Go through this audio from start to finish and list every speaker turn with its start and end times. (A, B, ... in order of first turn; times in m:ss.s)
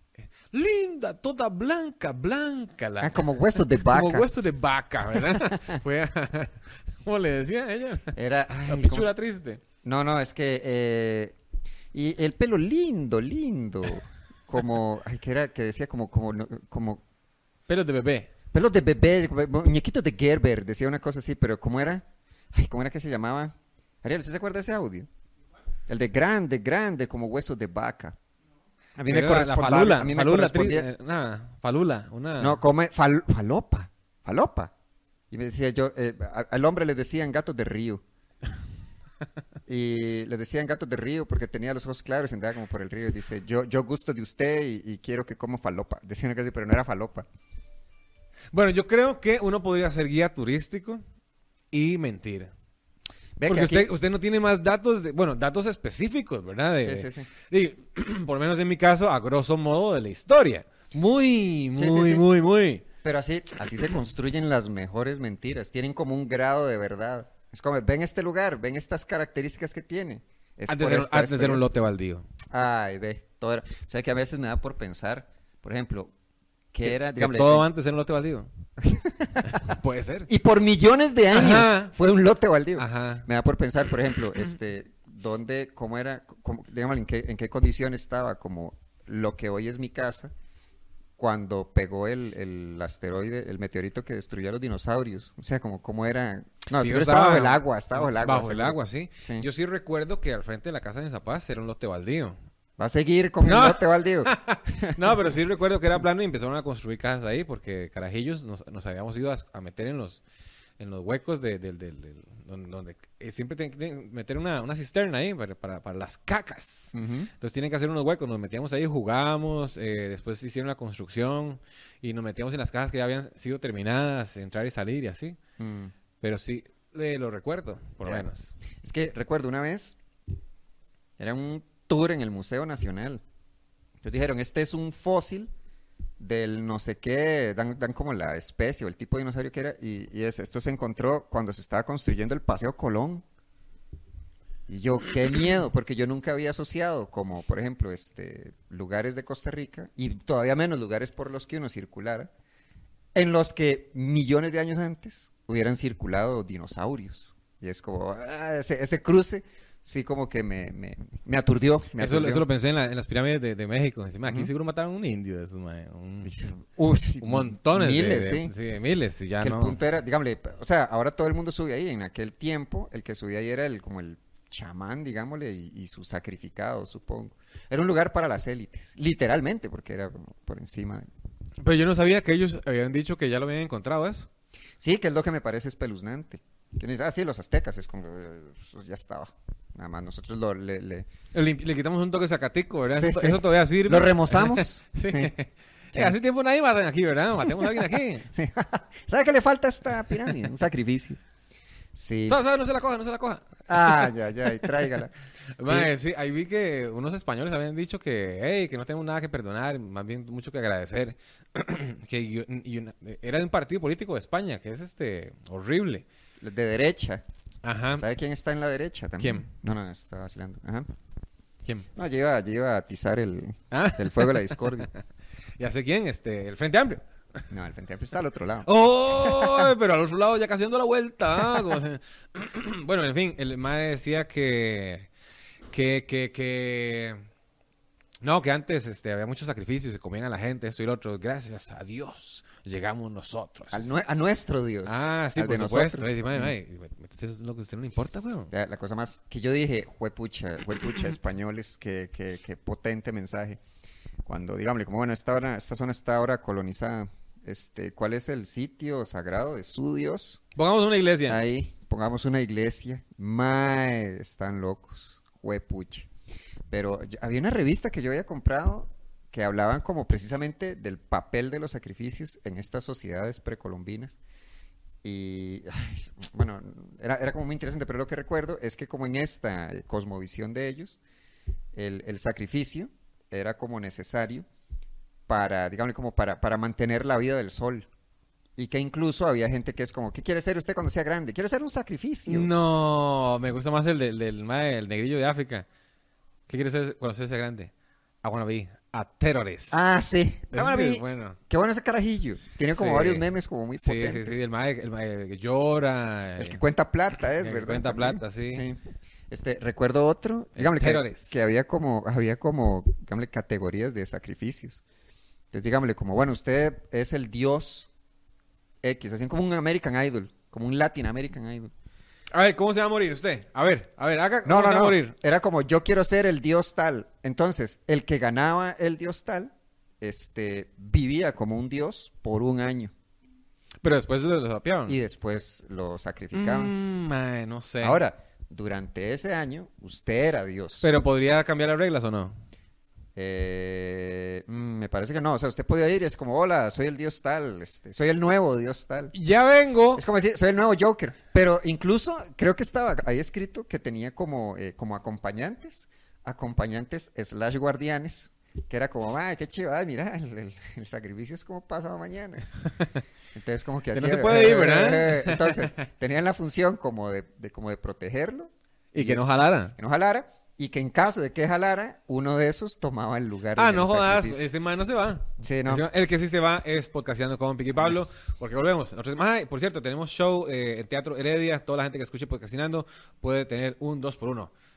0:00.5-0:08.1 A
0:03.0-0:04.3 B
0:05.2-0:05.8 B
0:08.2-0:09.1 B
0:08.7-0:09.6 A
0:09.8-0:11.4 B
0:11.9-0:17.0 B
0:17.7-0:18.3 A
0:18.5-0:25.1 B
0:25.9-0:28.2 B
0:29.0-0:30.9 B
0:29.1-0:32.6 A
0:32.4-0:34.7 B
0:35.3-0:38.0 B
0:39.7-0:47.3 B
0:48.5-0:51.0 A
0:51.7-0:52.5 A
0:53.4-0:53.9 B
0:53.5-1:02.8 A
0:56.8-0:57.3 B
1:01.8-1:02.3 B
1:03.0-1:11.7 B
1:10.7-1:12.3 A
1:12.5-1:16.1 B
1:16.7-1:17.7 B
1:16.8-1:18.5 A
1:18.8-1:19.8 B
1:19.4-1:20.3 A
1:20.3-1:30.3 B
1:21.3-1:21.9 A
1:22.8-1:23.3 A
1:31.2-1:39.5 B
1:36.8-1:42.4 A
1:42.8-1:45.2 B
1:43.4-1:50.2 A
1:50.8-2:05.4 A
1:56.9-1:57.3 B
2:05.6-2:05.9 B
2:06.2-2:08.6 A
2:08.0-2:08.3 B
2:08.8-2:10.0 B
2:11.2-2:13.2 B
2:14.0-2:15.5 B
2:16.2-2:23.2 B
2:24.7-2:32.3 B
2:33.2-2:42.4 B
2:42.0-2:46.4 A
2:44.3-2:44.5 B
2:46.3-2:48.5 B
2:47.2-2:49.8 A
2:49.4-3:01.1 B
3:01.6-3:04.3 A
3:04.8-3:11.1 B
3:11.3-3:18.3 A
3:12.9-3:15.3 B
3:17.5-3:21.2 B
3:22.0-3:22.4 B
3:22.3-3:24.1 A
3:23.7-3:25.9 B
3:25.6-3:36.0 A
3:36.4-3:37.2 B
3:37.6-3:38.0 A
3:38.0-3:40.9 B
3:39.2-3:39.5 A
3:42.0-3:44.9 B
3:43.7-3:45.0 A
3:45.6-3:47.0 A
3:47.5-3:49.7 B
3:48.7-3:55.1 A
3:51.5-3:51.8 B
3:55.7-3:57.2 A
3:58.2-4:03.9 A
4:03.7-4:06.5 B
4:04.8-4:08.5 A
4:08.5-4:13.6 B
4:14.2-4:20.4 B
4:20.6-4:21.4 A
4:21.3-4:26.1 B
4:26.7-4:34.2 B
4:35.0-4:41.0 B
4:41.7-4:44.5 B
4:45.3-4:47.9 B
4:48.6-4:52.5 B
4:52.3-4:55.7 A
4:56.5-4:57.7 A
4:58.2-4:59.8 A
4:59.7-5:04.4 B
5:00.5-5:01.4 A
5:02.7-5:06.6 A
5:06.4-5:08.8 B
5:07.3-5:08.7 A
5:09.3-5:14.8 B
5:10.6-5:11.4 A
5:15.5-5:17.9 B
5:18.8-5:21.7 B
5:22.3-5:25.2 A
5:24.4-5:32.9 B
5:33.8-5:35.0 A
5:34.9-5:36.7 B
5:36.3-5:38.0 A
5:37.8-5:40.9 B
5:40.8-5:42.4 A
5:43.2-5:49.1 B
5:49.1-5:50.0 A
5:50.0-6:02.5 B
6:03.4-6:09.2 B
6:03.9-6:05.6 A
6:08.9-6:09.8 A
6:09.8-6:14.5 B
6:13.6-6:24.5 A
6:15.4-6:15.8 B